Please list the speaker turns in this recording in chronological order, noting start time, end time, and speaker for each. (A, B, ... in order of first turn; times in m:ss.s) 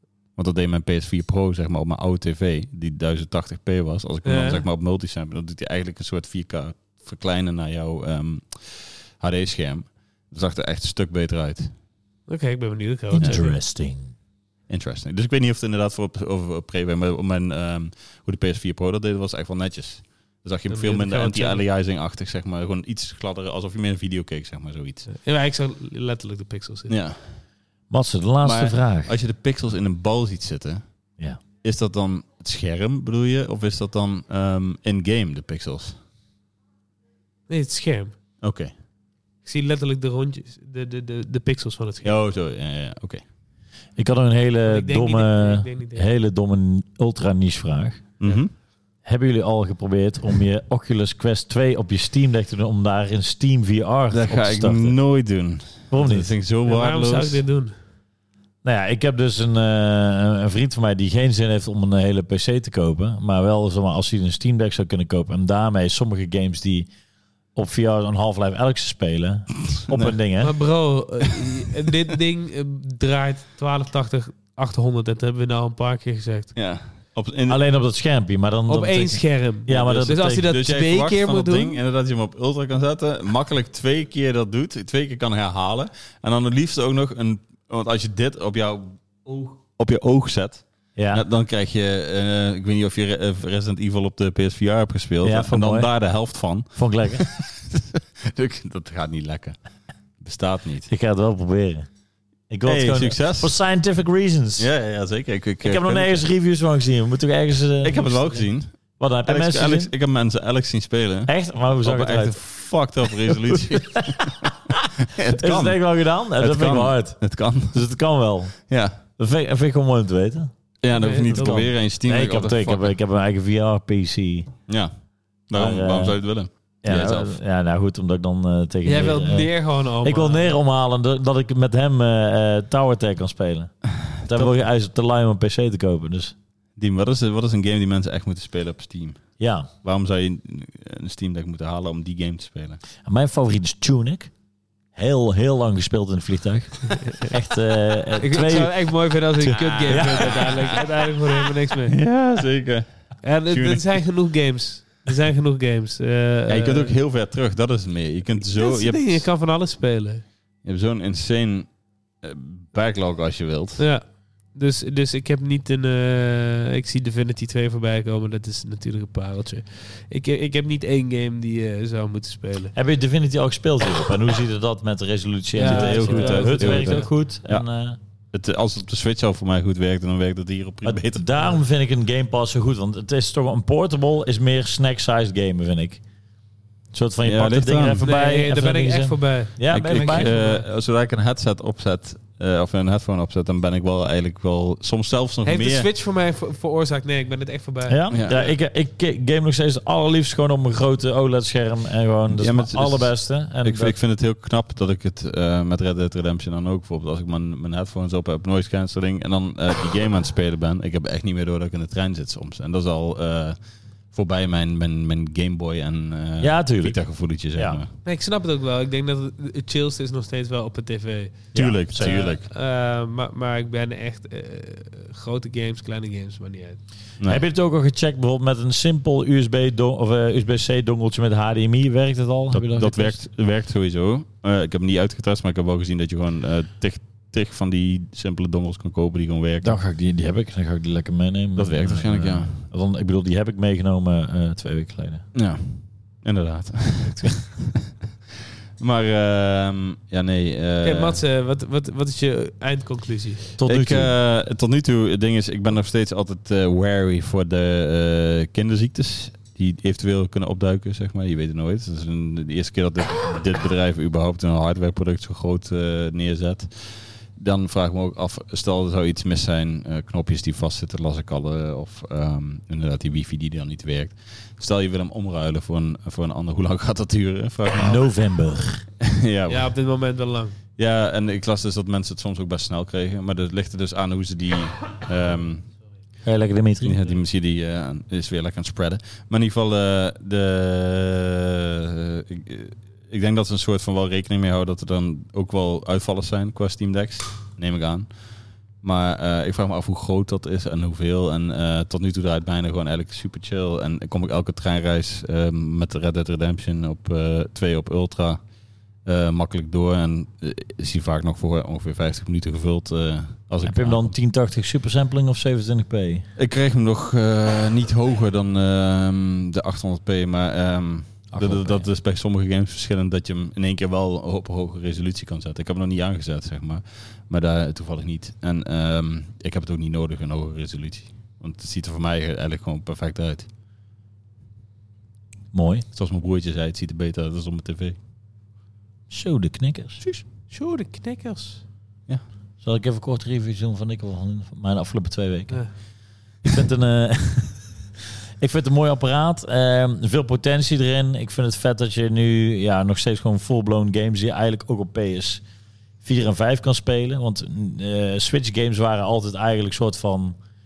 0:00.4-0:11.7 A
0:04.2-0:04.6 B
0:12.3-0:13.6 B
0:13.1-0:14.1 C
0:14.7-0:25.1 A
0:20.7-0:21.6 B
0:25.1-0:26.9 B
0:26.9-0:27.4 A
0:27.9-0:29.1 C
0:28.4-0:30.8 A
0:31.6-0:36.0 A
0:37.5-0:38.2 B
0:38.4-0:38.7 A
0:39.4-0:42.2 B
0:42.0-0:43.2 A
0:44.0-0:48.1 C
0:44.7-0:46.1 B
0:48.2-0:48.5 A
0:49.0-0:55.0 C
0:54.1-0:57.4 A
0:55.9-0:56.3 C
0:56.6-0:57.8 B
0:58.6-1:06.9 C
1:07.6-1:10.5 C
1:09.8-1:10.2 A
1:10.4-1:16.6 B
1:16.6-1:17.6 A
1:17.5-1:20.5 C
1:18.7-1:21.8 B
1:19.7-1:39.6 A
1:31.0-1:31.2 C
1:35.2-1:35.9 C
1:36.7-1:37.3 C
1:40.2-1:40.9 A
1:40.9-1:41.9 C
1:42.5-1:44.7 C
1:42.6-1:43.6 A
1:44.6-1:46.3 A
1:45.6-1:49.9 C
1:47.8-1:55.8 A
1:51.3-1:52.4 C
1:53.1-1:54.2 C
1:55.3-1:58.6 C
1:56.3-1:57.8 A
1:58.7-1:59.0 A
1:59.1-2:00.5 C
2:00.8-2:02.9 A
2:00.9-2:01.6 B
2:01.3-2:04.5 C
2:04.7-2:04.9 A
2:05.5-2:07.4 A
2:05.5-2:06.2 C
2:06.8-2:16.3 C
2:08.8-2:10.6 B
2:14.2-2:14.6 A
2:16.8-2:19.2 A
2:19.4-2:19.7 C
2:19.8-2:22.8 A
2:23.0-2:24.3 C
2:24.9-2:30.6 C
2:28.2-2:32.0 B
2:29.4-2:30.8 A
2:31.9-2:34.0 A
2:33.2-2:37.0 B
2:36.5-2:39.3 A
2:38.6-2:40.2 B
2:40.6-2:43.8 A
2:43.8-2:52.7 B
2:52.8-2:58.0 C
2:55.6-2:57.1 B
2:55.6-2:57.6 A
2:58.3-3:01.3 A
3:00.8-3:06.0 C
3:06.9-3:10.3 C
3:07.2-3:08.0 A
3:08.0-3:10.6 B
3:09.7-3:15.9 A
3:15.4-3:18.4 B
3:17.9-3:24.0 C
3:18.1-3:18.5 A
3:22.3-3:33.6 A
3:34.1-3:37.9 A
3:36.4-3:37.8 C
3:38.0-3:46.8 B
3:41.5-3:42.3 C
3:41.5-3:42.5 A
3:47.3-3:53.2 C
3:52.5-3:59.8 A
3:59.6-4:05.3 C
4:01.6-4:02.6 A
4:05.3-4:07.9 A
4:08.8-4:11.2 A
4:10.8-4:13.5 B
4:13.6-4:14.1 C
4:13.6-4:38.0 A
4:37.8-4:38.9 C
4:39.1-4:39.7 A
4:39.5-4:40.6 B
4:40.8-4:45.6 A
4:46.2-4:47.0 C
4:46.8-4:58.1 A
4:58.8-5:08.4 A
5:09.0-5:14.2 A
5:13.6-5:16.3 C
5:16.4-5:33.5 A
5:21.3-5:21.9 C
5:35.5-5:35.9 C
5:35.9-5:38.0 A
5:39.1-5:40.0 C
5:40.2-5:41.6 B
5:42.6-5:45.6 C
5:46.4-5:47.6 C
5:48.4-5:55.4 C
5:56.0-6:00.4 C